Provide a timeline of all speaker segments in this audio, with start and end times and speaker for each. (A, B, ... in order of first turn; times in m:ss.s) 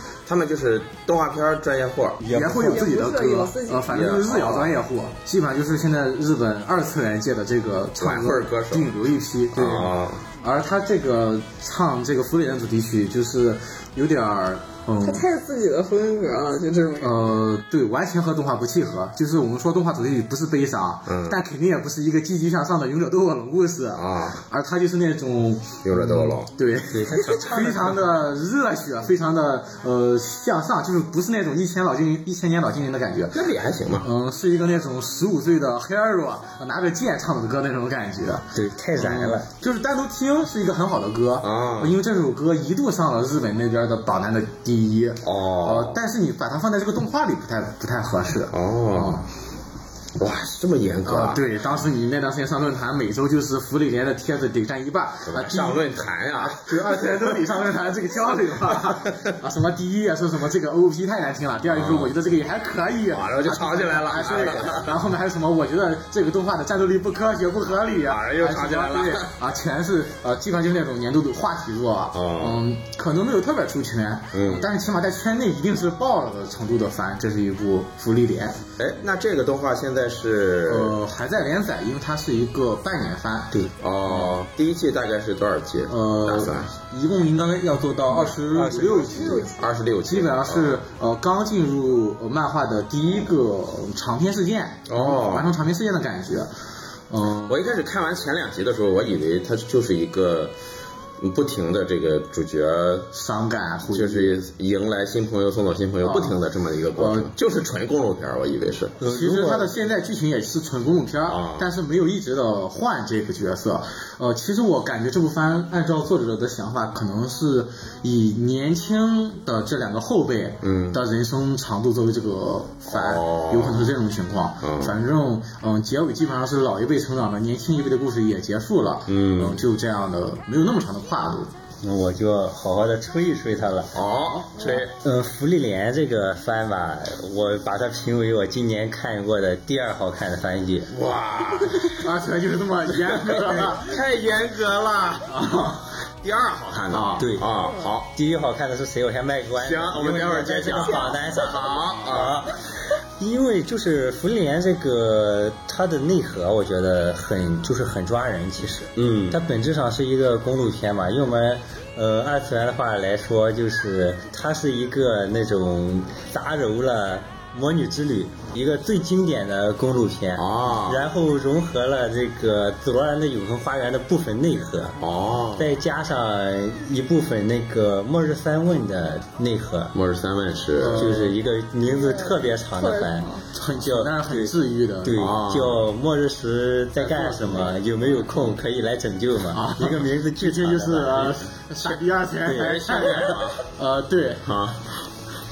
0:00.3-0:02.2 A
0:02.2-0:15.3 B
0:02.3-0:02.6 C
0:02.4-0:03.9 D
0:03.9-0:04.7 A
0:08.0-0:08.9 A
0:09.5-0:10.3 A
0:15.0-0:17.1 D
0:17.0-0:33.4 B
0:21.1-0:21.4 A
0:23.9-0:24.4 A
0:25.8-0:26.5 A
0:26.9-0:28.0 C
0:33.3-0:34.1 A
0:34.0-0:49.2 B
0:38.5-0:39.5 C
0:41.4-0:41.9 A
0:45.2-0:46.0 A
0:48.5-0:49.2 A
0:50.2-0:51.4 A
0:51.0-1:18.6 B
0:55.3-0:57.3 A
0:58.7-0:59.3 A
1:01.7-1:02.1 A
1:03.1-1:05.0 A
1:08.1-1:09.3 A
1:12.1-1:12.6 A
1:14.3-1:14.7 A
1:18.8-1:21.0 A
1:20.7-1:24.3 B
1:23.8-1:26.7 A
1:25.9-1:29.5 B
1:28.5-1:29.1 C
1:29.1-1:29.5 D
1:29.6-1:30.8 A
1:30.1-1:36.5 B
1:34.9-1:35.5 A
1:37.1-1:37.6 B
1:37.5-1:40.5 A
1:41.2-1:43.1 A
1:43.1-1:44.4 B
1:43.9-1:49.0 A
1:46.0-1:46.4 B
1:47.0-1:47.3 B
1:49.0-1:49.7 C
1:49.0-2:11.5 B
1:51.3-1:51.7 A
2:00.6-2:01.0 A
2:02.9-2:03.9 A
2:04.6-2:05.0 A
2:09.1-2:09.6 A
2:11.8-2:14.0 C
2:13.9-2:14.9 A
2:14.3-2:14.8 B
2:14.9-2:20.9 C
2:20.9-2:22.1 A
2:21.9-2:24.0 B
2:23.0-2:25.4 A
2:25.3-2:25.9 B
2:26.2-2:28.1 A
2:26.9-2:27.3 B
2:27.2-2:27.5 C
2:28.1-2:32.6 C
2:29.6-2:32.5 A
2:33.2-2:55.0 C
2:39.0-2:39.4 A
2:50.4-2:51.0 A
2:55.0-2:55.7 A
2:55.6-2:59.9 C
2:59.9-3:01.2 A
3:00.8-3:01.4 B
3:01.0-3:11.4 C
3:02.1-3:03.4 D
3:03.5-3:05.3 B
3:05.1-3:05.8 A
3:07.0-3:07.8 B
3:09.5-3:14.5 B
3:12.4-3:13.0 C
3:12.5-3:13.6 A
3:14.4-3:14.9 A